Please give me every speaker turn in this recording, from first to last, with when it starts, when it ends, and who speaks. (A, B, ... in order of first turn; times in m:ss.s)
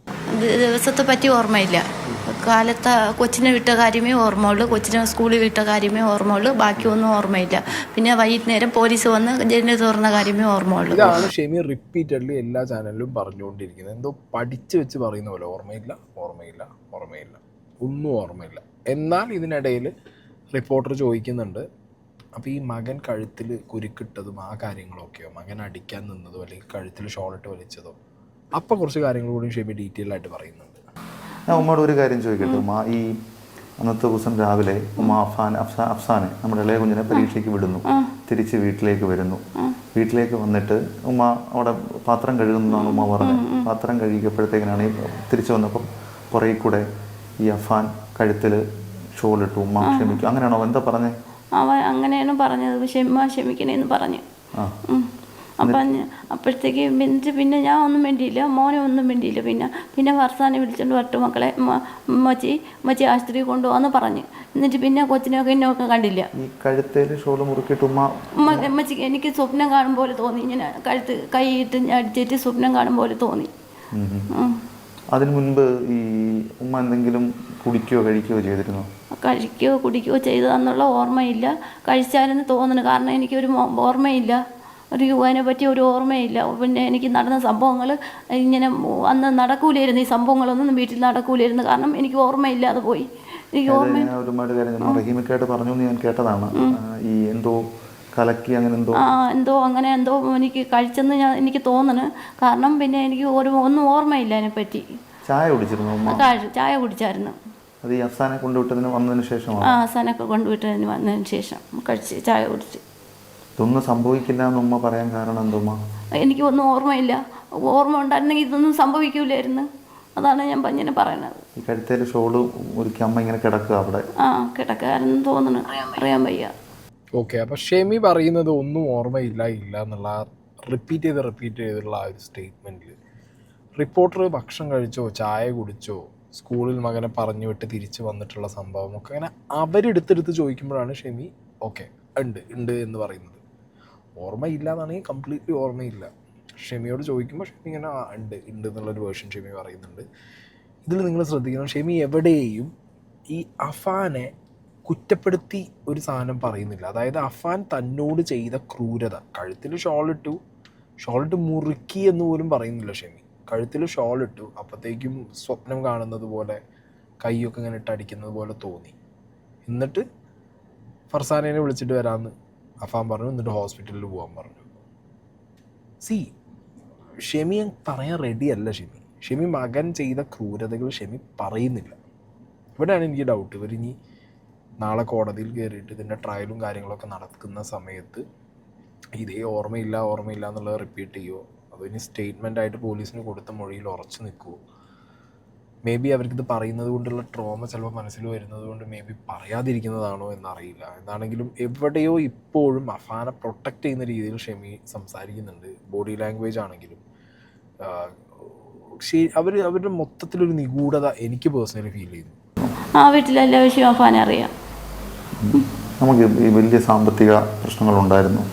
0:00.3-0:11.3 A
0:10.9-0:19.9 B
0:20.5-0:21.6 B
0:22.4-0:28.0 B
0:28.6-0:30.8 B
0:31.5-0:33.2 C
0:33.8-0:39.4 C
0:37.9-0:38.1 A
0:39.9-0:46.8 C
0:42.7-0:43.7 A
0:47.4-0:48.6 C
0:49.2-0:51.1 C
0:49.8-0:50.2 A
0:51.6-0:54.2 A
0:54.9-1:06.3 A
1:06.4-1:08.7 C
1:08.4-1:13.5 A
1:13.9-1:14.3 C
1:14.3-1:14.6 A
1:15.1-1:18.9 C
1:19.2-1:24.4 A
1:24.9-1:34.1 A
1:33.7-1:37.6 C
1:38.1-1:39.0 C
1:39.0-1:44.8 A
1:45.2-1:46.2 C
1:46.1-1:47.4 A
1:47.8-1:49.8 C
1:49.6-1:52.8 A
1:53.6-1:55.8 C
1:56.2-2:01.4 A
2:01.6-2:04.1 C
2:04.2-2:06.5 A
2:07.2-2:13.0 B
2:13.8-2:23.4 B
2:24.2-2:30.0 B
2:30.8-2:32.7 B
2:33.3-2:34.3 B
2:34.8-2:40.4 B
2:41.0-2:46.6 B
2:47.2-2:49.0 B
2:49.7-2:50.0 B
2:51.1-2:54.7 B
2:56.0-2:56.3 B
2:57.2-3:02.0 B
3:02.8-3:03.9 B
3:04.8-3:08.2 B
3:09.2-3:14.6 B
3:15.8-3:27.0 B
3:27.8-3:32.4 B
3:33.0-3:34.5 A
3:35.4-3:38.4 C